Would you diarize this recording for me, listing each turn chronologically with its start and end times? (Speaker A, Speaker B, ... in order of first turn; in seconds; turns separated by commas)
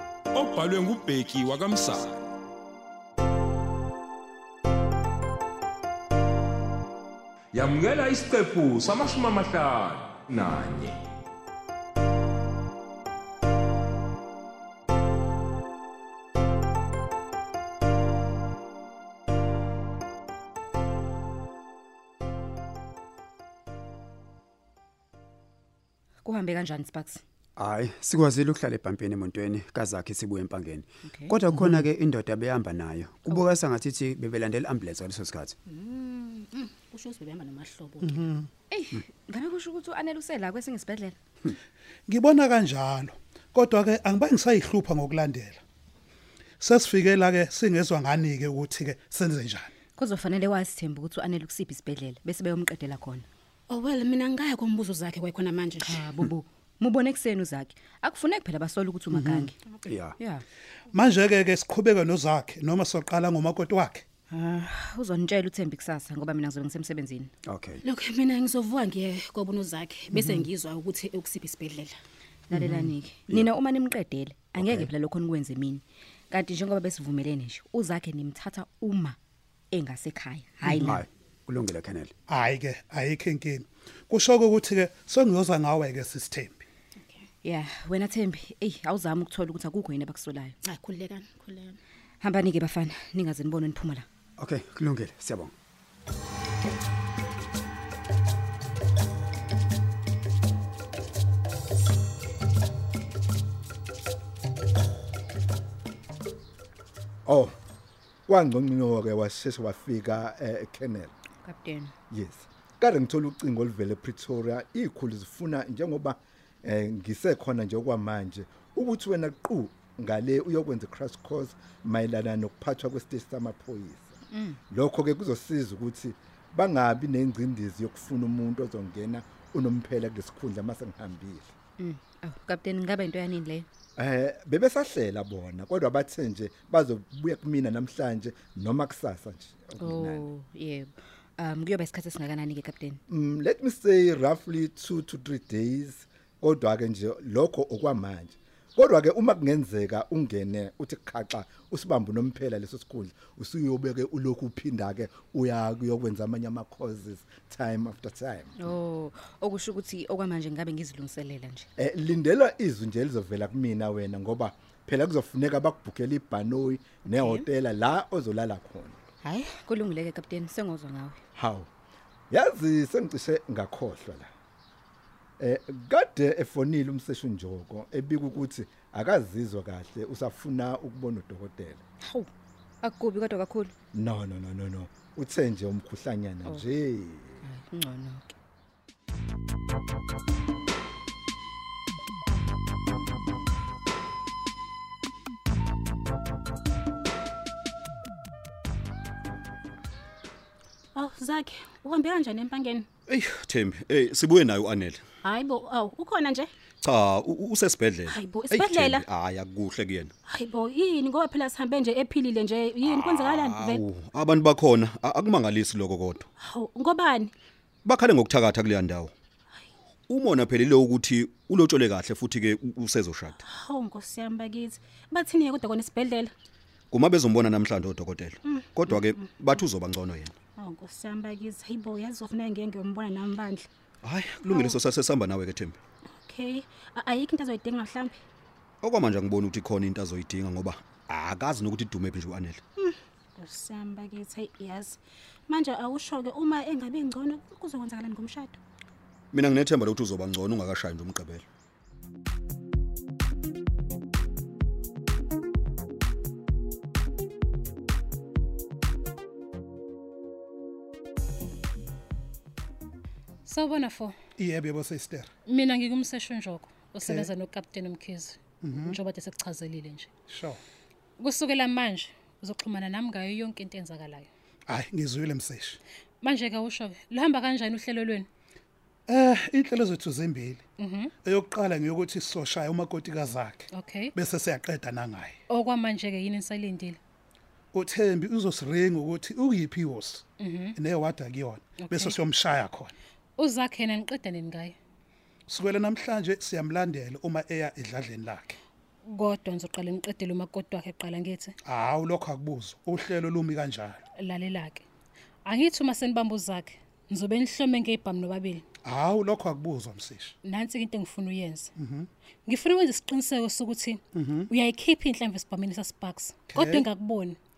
Speaker A: 0.3-2.3, Speaker A: 7.5-11.0, Speaker B: 26.2-27.2, Speaker C: 27.6-35.5, Speaker B: 31.1-31.5, Speaker D: 35.7-38.3, Speaker E: 38.0-38.5, Speaker B: 38.7-41.1, Speaker E: 42.1-45.6, Speaker E: 46.6-49.7, Speaker B: 50.0-53.2, Speaker D: 53.7-56.3, Speaker B: 55.8-59.5, Speaker C: 59.8-60.1, Speaker B: 60.2-60.4, Speaker E: 60.9-64.0, Speaker B: 64.3-67.3, Speaker C: 67.4-67.8, Speaker D: 67.8-71.9, Speaker B: 70.1-70.5, Speaker B: 72.5-79.2, Speaker C: 72.5-73.5, Speaker C: 74.6-74.9, Speaker B: 79.7-81.0, Speaker C: 80.8-82.1, Speaker E: 82.3-86.6, Speaker B: 87.4-90.5, Speaker D: 90.6-91.8, Speaker B: 92.2-94.0, Speaker C: 94.4-95.5, Speaker F: 107.2-107.6, Speaker F: 108.3-111.1, Speaker B: 111.4-111.9, Speaker F: 112.1-124.2, Speaker B: 124.3-124.6, Speaker F: 124.7-131.5, Speaker B: 131.8-133.7, Speaker F: 134.0-140.3, Speaker B: 139.8-143.0, Speaker F: 143.1-158.6, Speaker B: 158.6-161.7, Speaker F: 161.8-169.0, Speaker B: 167.2-167.4, Speaker B: 169.2-171.2, Speaker F: 171.3-171.7, Speaker F: 172.3-174.3, Speaker F: 175.4-181.8, Speaker B: 182.0-182.3, Speaker B: 182.8-183.7, Speaker F: 183.9-187.4, Speaker B: 187.4-188.3, Speaker D: 200.9-202.9, Speaker G: 203.1-205.0, Speaker D: 205.2-206.5, Speaker G: 206.8-210.1, Speaker D: 208.1-209.1, Speaker D: 210.3-213.8, Speaker G: 212.9-216.2, Speaker D: 216.4-217.3, Speaker G: 217.8-219.1, Speaker G: 220.1-223.4, Speaker D: 223.5-226.3, Speaker G: 226.9-230.3, Speaker D: 228.5-229.2, Speaker D: 230.6-233.7, Speaker G: 234.0-235.8, Speaker D: 234.5-234.8, Speaker D: 236.2-238.2, Speaker G: 238.8-242.6, Speaker D: 242.8-248.6, Speaker G: 249.3-251.4, Speaker H: 263.4-264.1, Speaker E: 264.4-265.3, Speaker H: 265.4-270.1, Speaker E: 267.0-267.3, Speaker E: 268.6-269.0, Speaker E: 270.3-270.6, Speaker H: 271.2-274.3, Speaker E: 274.7-275.8, Speaker H: 276.2-278.3, Speaker E: 279.1-280.6, Speaker H: 280.8-281.1, Speaker E: 281.2-285.4, Speaker H: 283.7-284.1, Speaker H: 285.5-287.0, Speaker E: 287.7-292.9, Speaker H: 290.4-290.8, Speaker H: 291.8-292.1, Speaker H: 293.4-294.8, Speaker E: 295.5-298.6, Speaker H: 299.0-301.6, Speaker E: 301.6-304.0, Speaker H: 304.1-304.9, Speaker H: 305.4-308.6, Speaker E: 308.8-310.3, Speaker H: 310.4-311.7, Speaker E: 311.8-312.1, Speaker H: 312.4-317.4, Speaker E: 314.1-314.5, Speaker E: 316.5-316.9